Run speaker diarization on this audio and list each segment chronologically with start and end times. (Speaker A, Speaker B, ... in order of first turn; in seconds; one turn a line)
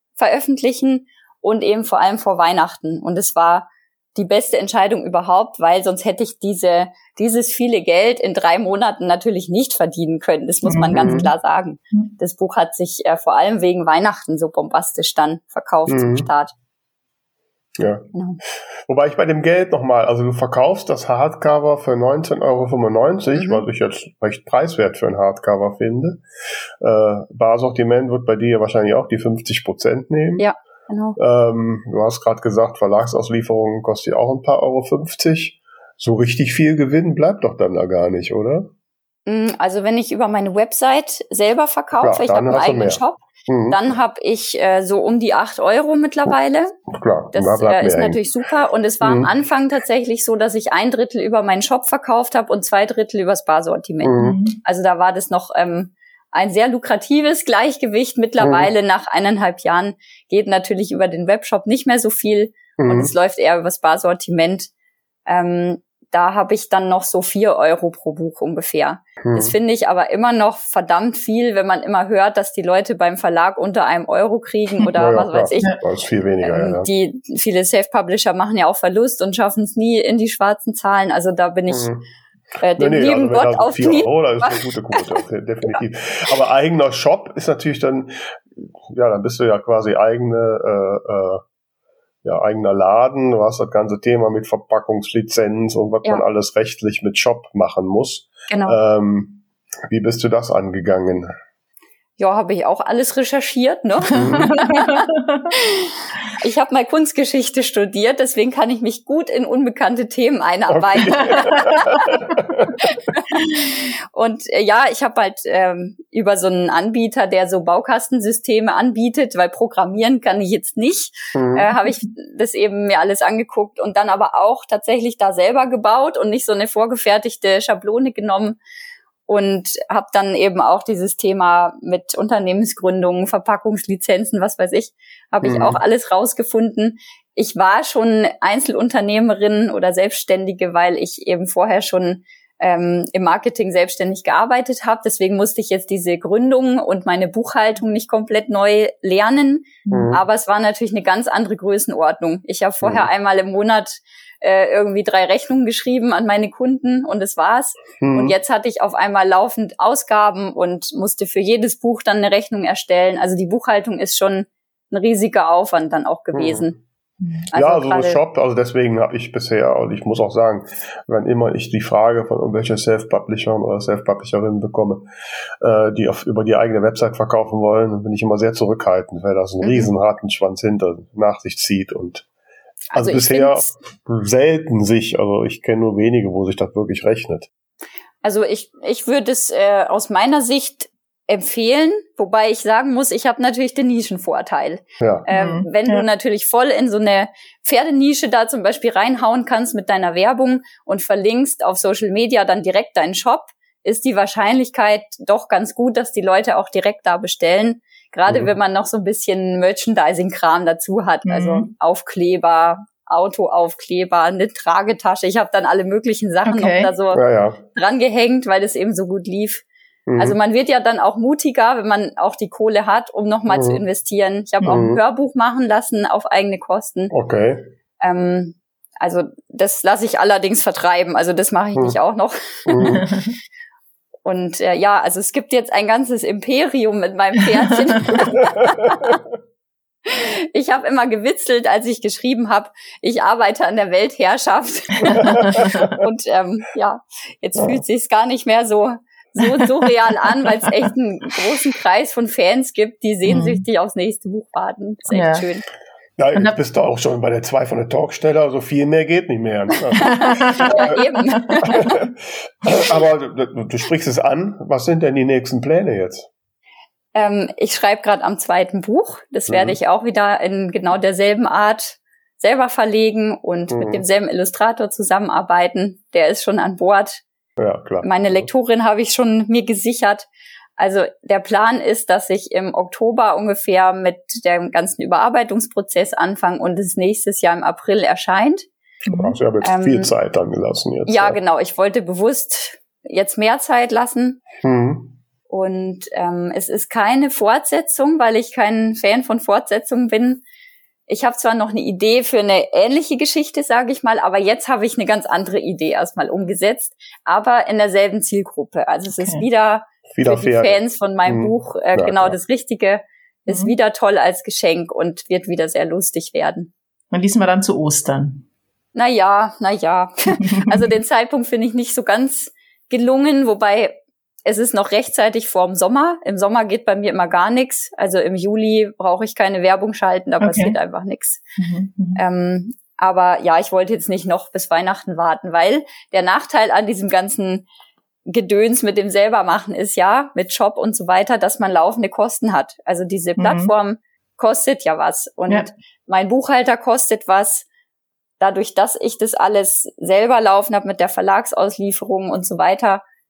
Speaker A: 0.2-16.5
Speaker B: 10.6-11.3
Speaker C: 10.9-11.2
Speaker C: 15.9-16.3
Speaker C: 17.8-18.1
Speaker A: 18.1-18.4
Speaker C: 18.9-26.2
Speaker A: 23.3-23.6
Speaker C: 26.8-30.4
Speaker A: 30.4-31.2
Speaker C: 31.2-38.7
Speaker A: 39.2-46.8
Speaker C: 42.0-43.9
Speaker C: 46.9-48.2
Speaker A: 47.3-64.7
Speaker C: 49.0-49.3
Speaker C: 54.0-54.4
Speaker B: 54.2-54.6
Speaker C: 58.4-58.7
Speaker C: 62.8-63.1
Speaker A: 65.3-75.8
Speaker C: 69.2-69.5
Speaker C: 74.9-76.9
Speaker A: 76.4-81.9
Speaker C: 81.7-82.0
Speaker A: 82.6-85.8
Speaker C: 82.7-91.4
Speaker C: 92.2-101.3
Speaker A: 98.5-98.8
Speaker A: 102.2-112.0
Speaker C: 104.1-104.5
Speaker B: 104.4-105.5
Speaker C: 110.7-112.9
Speaker B: 111.1-111.6
Speaker A: 112.8-128.6
Speaker C: 121.3-121.7
Speaker A: 129.3-166.7
Speaker C: 135.4-135.8
Speaker B: 149.8-150.2
Speaker C: 149.9-150.2
Speaker C: 152.8-153.1
Speaker C: 158.0-158.3
Speaker C: 166.3-166.7
Speaker B: 167.2-167.4
Speaker A: 167.5-168.2
Speaker C: 167.5-175.1
Speaker C: 175.6-182.2
Speaker A: 179.6-179.9
Speaker A: 182.9-183.7
Speaker C: 182.9-187.5
Speaker A: 188.2-217.2
Speaker C: 195.0-195.3
Speaker B: 195.3-196.1
Speaker C: 208.3-208.5
Speaker B: 211.2-211.7
Speaker B: 216.4-216.9
Speaker C: 217.1-217.6
Speaker A: 217.7-219.6
Speaker C: 220.1-220.4
Speaker A: 220.2-227.1
Speaker C: 223.5-223.8
Speaker C: 224.6-225.0
Speaker C: 227.1-227.7
Speaker A: 228.0-233.0
Speaker C: 232.7-233.0
Speaker B: 232.8-233.3
Speaker A: 234.2-239.2
Speaker C: 238.8-239.1
Speaker A: 240.1-255.6
Speaker C: 245.0-246.0
Speaker B: 245.1-245.9
Speaker C: 247.6-247.8
Speaker B: 249.4-249.7
Speaker B: 253.2-253.6
Speaker B: 255.1-255.4
Speaker C: 256.2-261.0
Speaker B: 260.0-261.9
Speaker A: 260.0-261.8
Speaker C: 261.6-266.3
Speaker A: 267.1-277.2
Speaker C: 269.5-269.8
Speaker C: 273.7-274.0
Speaker C: 277.6-278.5
Speaker A: 278.0-280.3
Speaker A: 280.8-288.7
Speaker B: 289.1-289.4
Speaker C: 289.1-291.4
Speaker A: 289.6-290.1
Speaker A: 291.1-294.4
Speaker C: 294.6-295.2
Speaker A: 295.5-300.4
Speaker A: 301.1-316.7
Speaker B: 309.2-309.4
Speaker C: 310.1-312.4
Speaker B: 313.5-313.7
Speaker B: 317.1-318.4
Speaker A: 318.9-331.4
Speaker B: 320.4-320.8
Speaker B: 330.4-330.8
Speaker B: 331.6-332.2
Speaker A: 332.1-337.6
Speaker A: 338.3-347.6
Speaker B: 343.4-343.7
Speaker A: 348.4-353.0